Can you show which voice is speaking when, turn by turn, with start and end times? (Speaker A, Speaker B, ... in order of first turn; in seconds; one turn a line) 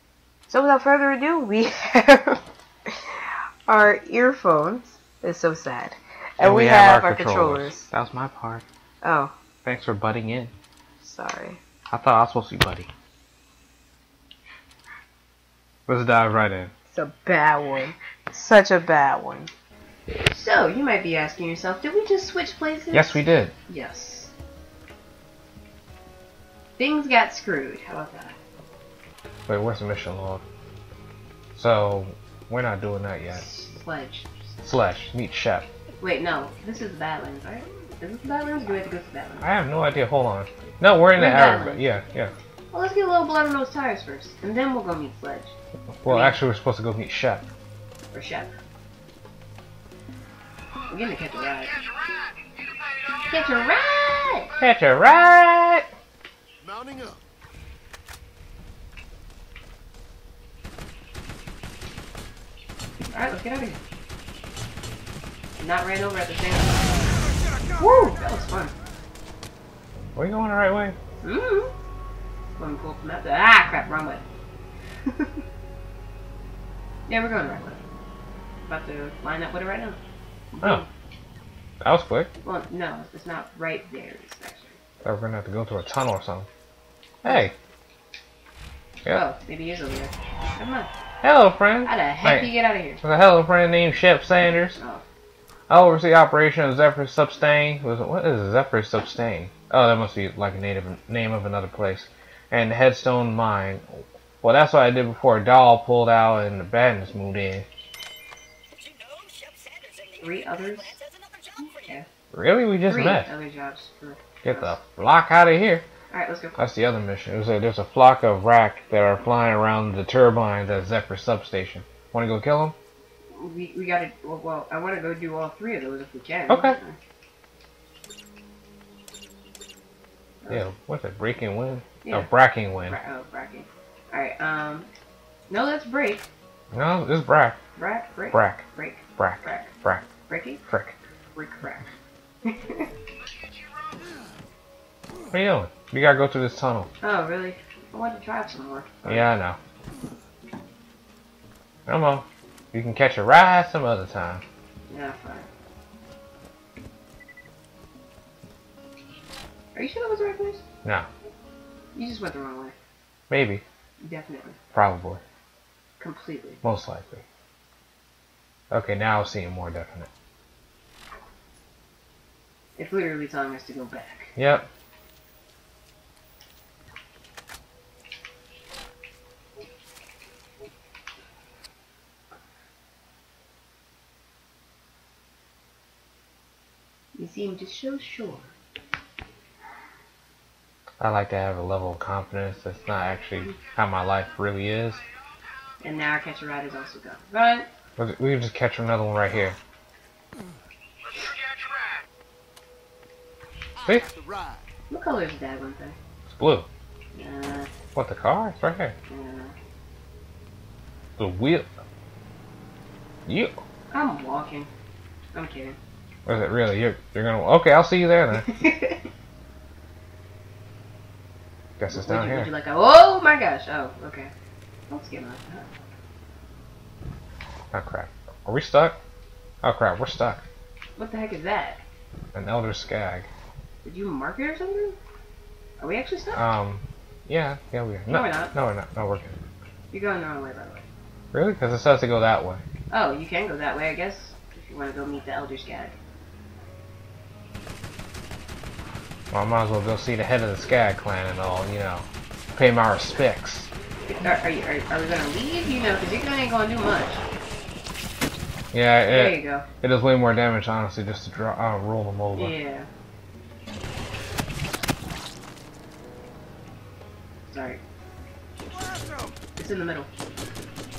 Speaker A: 0.5-7.9
Speaker B: 6.4-8.6
Speaker A: 9.0-9.3
Speaker B: 9.6-10.5
Speaker A: 11.0-11.6
Speaker B: 11.9-12.9
Speaker B: 15.9-16.7
Speaker A: 16.9-19.5
Speaker A: 20.1-24.3
Speaker B: 22.9-23.5
Speaker A: 26.8-28.4
Speaker B: 29.5-30.4
Speaker B: 31.6-33.4
Speaker A: 33.3-34.4
Speaker B: 34.6-35.7
Speaker A: 36.0-39.5
Speaker B: 39.4-42.3
Speaker A: 41.1-41.9
Speaker A: 42.7-45.5
Speaker B: 46.0-47.5
Speaker A: 46.0-46.4
Speaker A: 48.1-48.5
Speaker A: 50.9-51.8
Speaker A: 53.3-54.5
Speaker B: 54.6-55.9
Speaker A: 63.1-63.8
Speaker A: 65.6-67.0
Speaker A: 67.8-68.7
Speaker B: 70.2-71.0
Speaker A: 71.2-71.7
Speaker A: 72.6-74.2
Speaker A: 75.1-75.4
Speaker A: 77.1-77.8
Speaker A: 78.7-80.0
Speaker A: 80.5-80.9
Speaker B: 81.8-82.3
Speaker A: 82.4-84.8
Speaker B: 85.0-86.5
Speaker B: 87.2-87.5
Speaker A: 89.1-90.9
Speaker B: 91.2-94.8
Speaker A: 91.8-93.0
Speaker A: 94.8-95.0
Speaker B: 95.7-107.7
Speaker A: 110.2-111.0
Speaker A: 111.6-112.1
Speaker B: 112.3-113.3
Speaker A: 112.8-114.8
Speaker B: 114.4-115.9
Speaker A: 116.1-116.6
Speaker B: 116.6-122.8
Speaker A: 123.3-127.0
Speaker B: 126.5-126.8
Speaker B: 130.5-133.0
Speaker A: 132.0-132.3
Speaker A: 132.8-134.9
Speaker A: 135.5-136.2
Speaker B: 136.7-137.6
Speaker A: 137.8-139.7
Speaker B: 138.3-138.6
Speaker B: 139.2-140.1
Speaker A: 140.3-140.6
Speaker B: 140.7-140.9
Speaker A: 141.3-141.9
Speaker A: 142.4-142.9
Speaker B: 145.3-146.9
Speaker A: 147.0-149.3
Speaker B: 149.1-149.6
Speaker B: 151.9-154.4
Speaker A: 154.9-155.5
Speaker A: 159.8-160.6
Speaker A: 161.9-162.7
Speaker B: 163.3-163.6
Speaker A: 164.0-164.6
Speaker B: 164.7-165.2
Speaker A: 166.0-166.6
Speaker B: 166.6-167.2
Speaker B: 168.7-170.1
Speaker A: 172.8-174.3
Speaker B: 174.4-174.7
Speaker A: 187.2-188.5
Speaker B: 191.0-195.0
Speaker A: 195.8-197.7
Speaker B: 198.0-199.6
Speaker B: 203.8-204.1
Speaker A: 204.9-206.0
Speaker B: 206.3-206.7
Speaker A: 207.2-207.7
Speaker B: 207.9-209.0
Speaker A: 209.1-209.5
Speaker B: 211.2-211.7
Speaker B: 213.3-213.6
Speaker A: 213.9-214.7
Speaker A: 215.3-215.8
Speaker B: 216.2-218.5
Speaker A: 218.4-219.0
Speaker B: 221.8-222.5
Speaker A: 221.9-224.3
Speaker A: 224.9-225.7
Speaker B: 227.7-229.0
Speaker B: 229.6-230.4
Speaker A: 231.0-231.8
Speaker B: 232.3-233.3
Speaker A: 233.8-235.0
Speaker A: 235.8-236.4
Speaker B: 236.3-239.4
Speaker A: 238.1-238.5
Speaker A: 239.9-240.9
Speaker B: 241.3-242.6
Speaker A: 242.9-245.9
Speaker B: 249.3-253.7
Speaker A: 254.1-257.2
Speaker B: 258.7-262.6
Speaker A: 259.1-259.7
Speaker A: 262.4-262.9
Speaker A: 267.5-267.8
Speaker A: 269.6-270.1